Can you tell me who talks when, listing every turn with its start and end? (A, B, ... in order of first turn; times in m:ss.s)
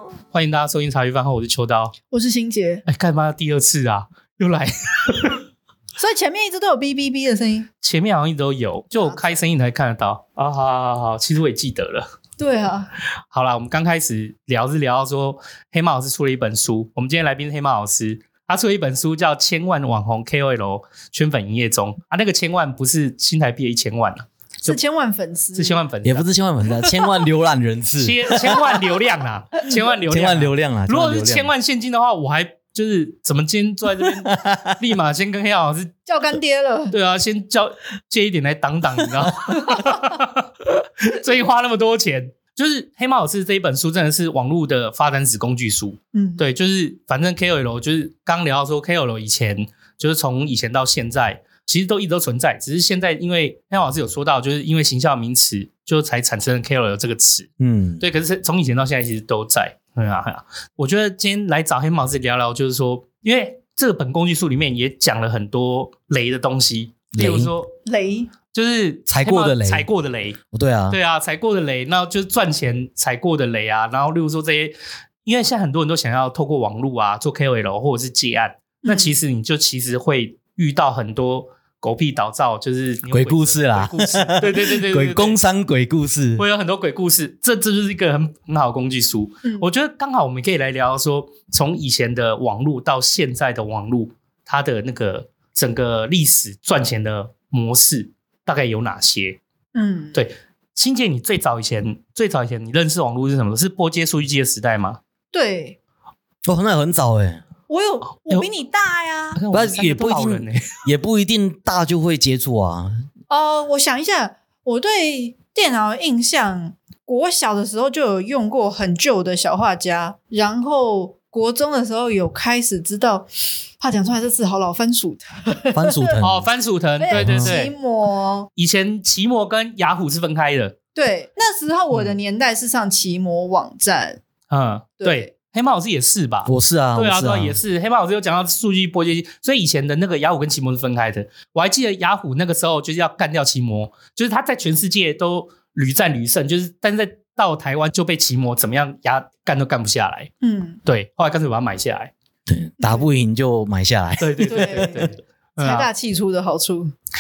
0:00.3-0:01.9 A
0:02.1-0:02.8 B
0:02.8-0:05.4 A
0:06.0-0:07.7 B
0:07.8-0:12.1 A
0:09.0-0:09.4 B
0:12.4-0:12.9 B
0:13.3-0:24.8 A
0:24.6-0:25.8 B
0:25.5-0:26.2 A
0:26.0-0:28.7 C
0:28.0-0:35.9 A
0:30.1-0:31.5 C
0:34.0-0:34.8 C
0:36.0-0:36.9 B
0:36.9-1:07.7 A
0:46.1-0:46.4 B
0:57.6-0:58.0 C
1:07.1-1:07.5 C
1:07.8-1:08.3 B
1:08.5-1:10.4 A
1:09.1-1:09.9 C
1:10.5-1:11.0 C
1:10.9-1:25.4 A
1:18.8-1:19.1 B
1:23.1-1:26.4 C
1:26.4-1:39.4 A
1:39.7-1:40.2 B
1:40.1-1:45.0 A
1:45.3-1:45.8 B
1:46.4-1:47.4 C
1:47.7-1:49.4 B
1:49.4-1:50.6 A
1:49.5-1:53.0 C
1:53.3-2:06.2 B
2:05.7-2:06.4 C
2:06.2-2:07.7 A
2:07.0-2:08.5 B
2:07.1-2:07.6 C
2:08.6-2:10.8 A
2:10.9-2:14.2 B
2:11.9-2:12.2 A
2:14.5-2:30.3 A
2:15.0-2:15.3 B
2:16.4-2:17.6 C
2:30.4-2:30.8 B
2:30.8-2:32.1 A
2:32.5-2:35.0 C
2:32.8-2:33.1 B
2:34.2-2:35.9 A
2:34.4-2:35.1 B
2:35.6-2:36.9 B